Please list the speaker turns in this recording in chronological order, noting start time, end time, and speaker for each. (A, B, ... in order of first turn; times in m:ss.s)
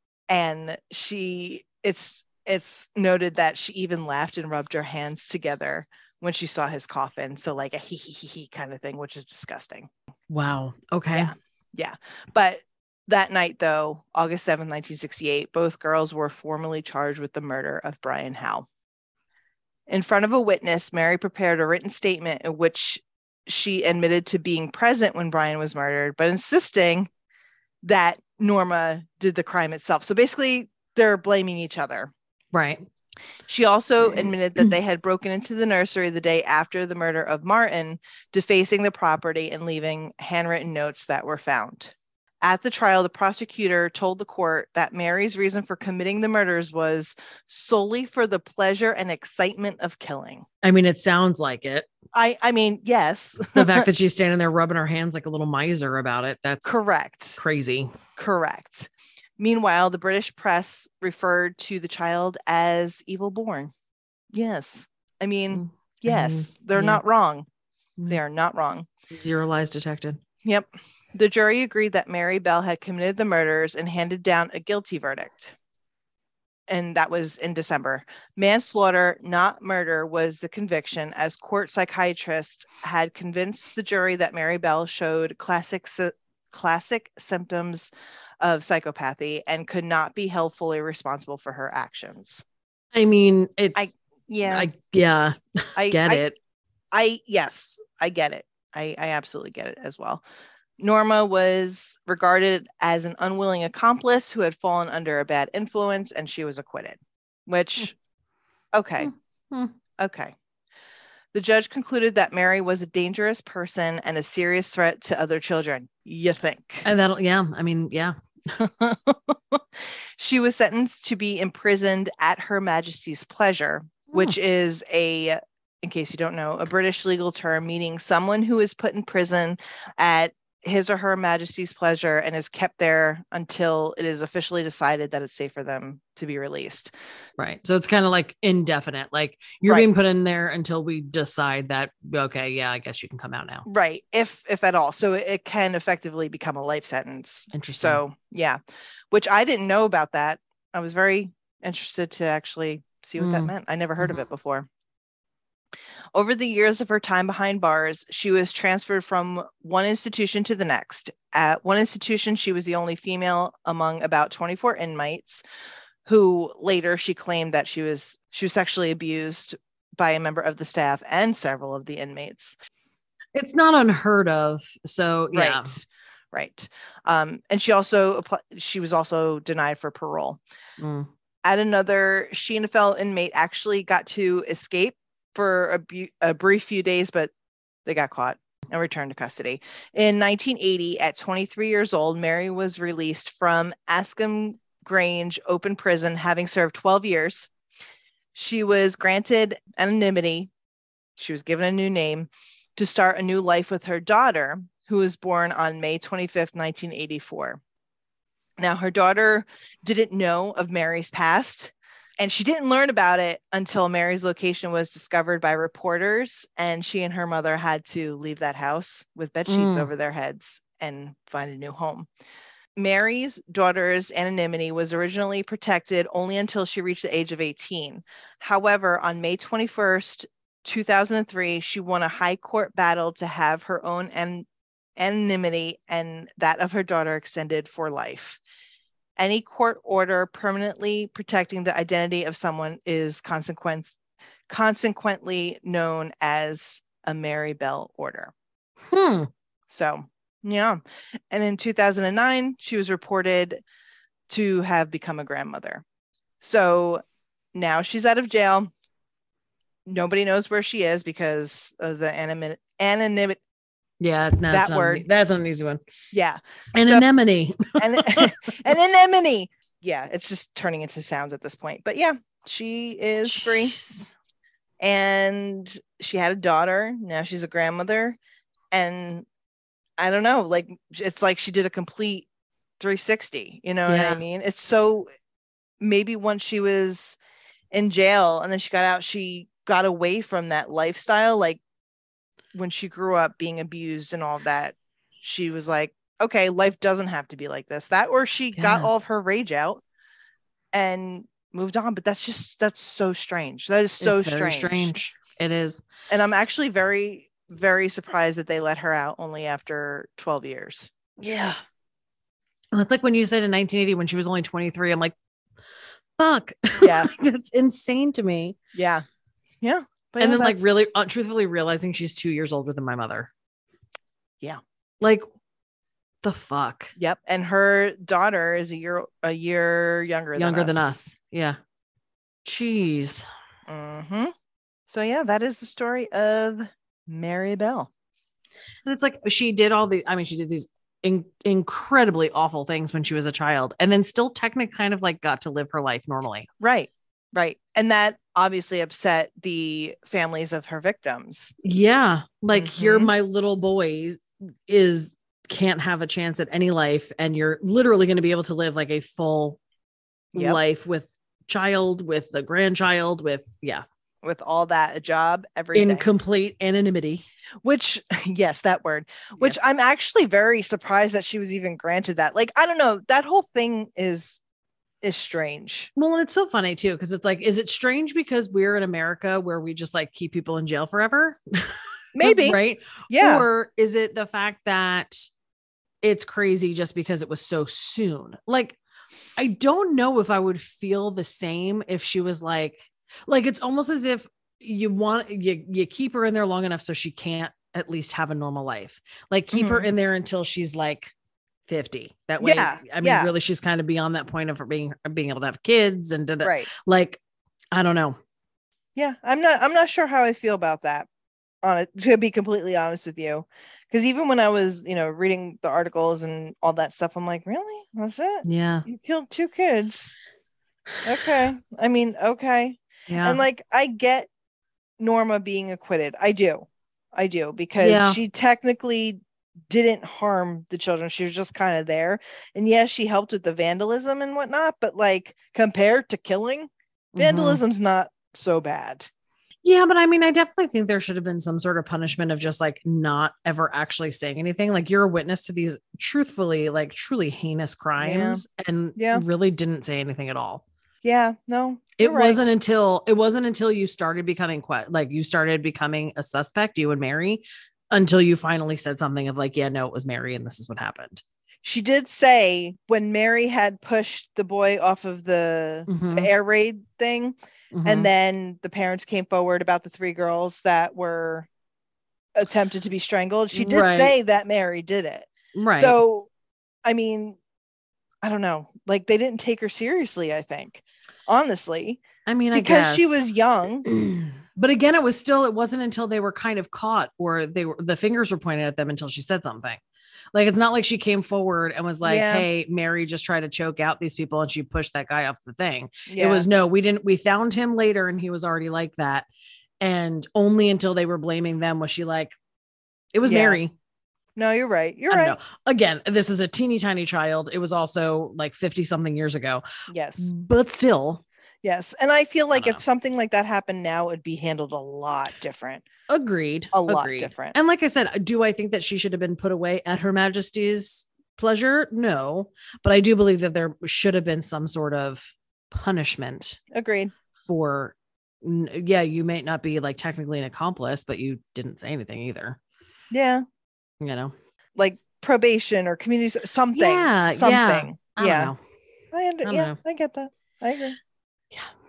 0:00.3-0:09.9 A
0:10.3-0:11.3 B
0:11.1-0:18.7 A
0:19.9-0:27.1 A
0:27.8-0:32.1 A
0:32.5-0:32.8 B
0:33.5-0:50.4 A
0:34.1-0:34.6 B
0:50.6-0:51.9 B
0:52.1-0:53.9 A
0:53.6-0:56.8 B
0:56.6-0:57.4 A
0:57.4-0:58.0 B
0:58.2-1:03.7 A
1:04.3-1:07.5 A
1:05.5-1:07.0 B
1:08.1-1:08.9 A
1:09.1-1:10.2 B
1:10.4-1:15.6 A
1:16.7-1:32.4 A
1:32.9-1:33.9 B
1:33.8-1:34.7 A
1:34.4-1:36.4 B
1:35.8-1:36.2 A
1:36.9-1:40.2 A
1:40.8-1:48.0 A
1:48.7-1:49.1 A
1:49.0-1:49.8 B
1:50.0-1:50.3 A
1:51.3-1:56.9 A
1:56.8-1:58.6 B
1:58.6-2:16.9 A
2:04.1-2:04.4 B
2:17.4-2:23.7 B
2:23.7-2:28.6 A
2:27.5-2:28.0 B
2:29.1-2:34.7 A
2:33.2-2:34.2 B
2:36.2-2:45.4 A
2:46.0-2:52.6 A
2:53.4-2:55.8 B
2:55.3-3:00.4 A
3:00.8-3:01.1 B
3:01.4-3:07.3 A
3:07.8-3:17.5 A
3:18.3-3:20.5 A
3:21.2-3:27.6 A
3:28.6-3:42.1 A
3:39.5-3:39.9 B
3:42.8-3:54.5 A
3:55.0-3:58.4 A
3:59.2-4:04.0 A
4:04.5-4:08.3 A
4:08.9-4:09.3 B
4:09.7-4:10.8 A
4:11.3-4:13.6 A
4:14.3-4:15.8 A
4:16.4-4:17.0 A
4:17.6-4:18.7 A
4:19.9-4:23.4 A
4:24.0-4:25.8 B
4:24.5-4:25.1 A
4:26.1-4:27.1 A
4:26.8-4:28.4 B
4:27.8-4:33.8 A
4:33.2-4:34.2 B
4:34.8-4:38.2 A
4:38.7-4:39.3 A
4:40.0-4:42.3 A
4:42.8-4:45.1 A
4:43.9-4:44.2 B
4:45.8-4:47.2 A
4:47.7-4:51.6 A
4:52.5-4:59.8 A
4:58.6-4:59.0 B
5:00.7-5:04.9 A
5:04.0-5:05.8 B
5:06.1-5:10.9 A
5:11.2-5:11.6 B
5:12.7-5:15.2 B
5:16.2-5:18.6 B
5:16.8-5:17.1 A
5:18.8-5:19.0 A
5:19.6-5:20.8 A
5:20.2-5:23.3 B
5:26.2-5:26.9 B
5:27.0-5:30.9 A
5:30.4-5:31.6 B
5:32.4-5:33.2 B
5:33.7-5:34.3 A
5:34.9-5:37.9 A
5:38.8-5:46.5 B
5:46.6-5:51.6 A
5:51.6-5:59.6 B
5:52.5-5:53.1 A
6:00.3-6:03.8 B
6:00.4-6:00.6 A
6:04.2-6:06.1 A
6:05.7-6:07.3 B
6:07.6-6:14.4 A
6:15.0-6:15.9 A
6:16.0-6:25.3 B
6:22.2-6:22.6 A
6:23.1-6:23.5 A
6:26.0-6:28.8 B
6:29.4-6:41.1 B
6:39.5-6:39.9 A
6:41.7-6:47.2 B
6:42.4-6:43.3 A
6:46.4-6:46.7 A
6:47.7-6:48.2 B
6:49.0-6:51.1 A
6:51.6-7:00.1 A
6:58.4-6:58.9 B
7:01.0-7:04.3 A
7:03.1-7:03.4 B
7:05.0-7:19.1 A
7:07.8-7:08.2 B
7:17.2-7:17.6 B
7:19.6-7:30.6 B
7:28.0-7:28.4 A
7:29.0-7:29.2 A
7:31.0-7:32.4 A
7:32.0-7:41.2 B
7:41.6-7:51.5 A
7:45.9-7:46.3 B
7:47.7-7:48.1 B
7:52.4-7:56.3 A
7:53.5-7:54.2 B
7:55.6-7:56.0 B
7:56.8-7:57.4 A
7:58.2-8:02.0 A
8:02.3-8:03.2 B
8:02.5-8:03.8 A
8:03.8-8:09.8 B
8:10.3-8:19.3 B
8:12.0-8:12.5 A
8:16.1-8:16.5 A
8:19.8-8:22.4 B
8:23.1-8:23.8 B
8:23.2-8:23.6 A
8:24.4-8:25.4 A
8:25.1-8:29.6 B
8:29.9-8:30.3 A
8:30.2-8:31.2 B
8:31.6-8:35.8 A
8:32.5-8:32.8 B
8:36.1-8:46.6 B
8:36.7-8:37.6 A
8:46.7-8:47.1 A
8:47.4-8:52.6 B
8:53.1-8:53.4 A
8:54.0-8:54.3 B
8:54.8-8:58.5 A
8:56.8-8:58.6 B
8:59.1-9:01.0 A
8:59.4-8:59.8 B